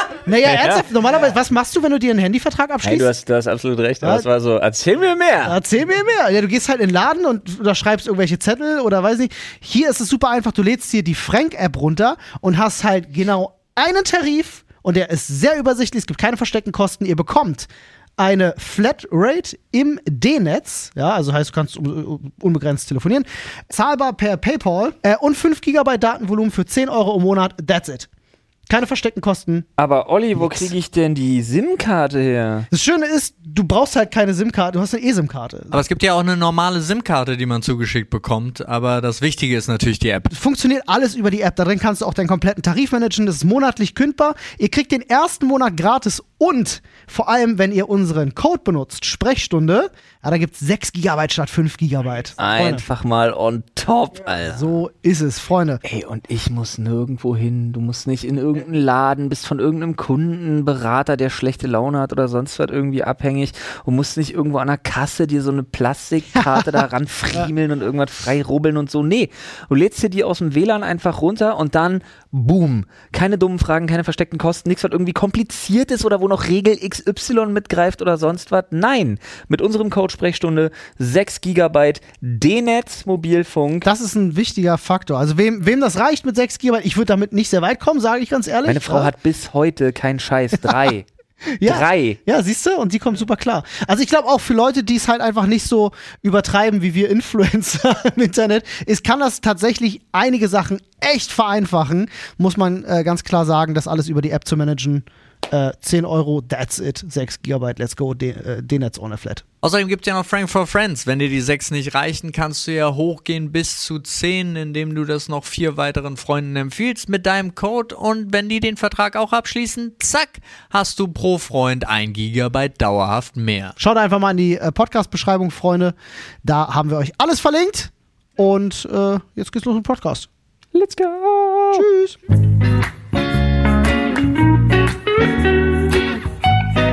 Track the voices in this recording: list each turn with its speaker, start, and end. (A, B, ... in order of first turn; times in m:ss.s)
0:00.2-0:03.1 A
0:00.4-0:00.9 B
0:02.8-0:05.6 B
0:05.4-0:28.1 A
0:28.7-0:29.7 A
0:29.8-0:32.7 B
0:30.4-0:30.7 A
0:32.7-0:35.8 A
0:35.7-0:40.3 C
0:40.3-0:52.8 A
0:52.4-0:54.7 B
0:54.4-0:55.8 A
0:55.8-1:23.9 B
1:23.8-1:29.1 A
1:28.6-1:31.1 B
1:31.5-1:49.4 A
1:31.6-1:32.2 B
1:49.6-2:03.8 C
2:03.8-2:10.3 A
2:10.7-2:11.9 B
2:11.7-2:12.2 A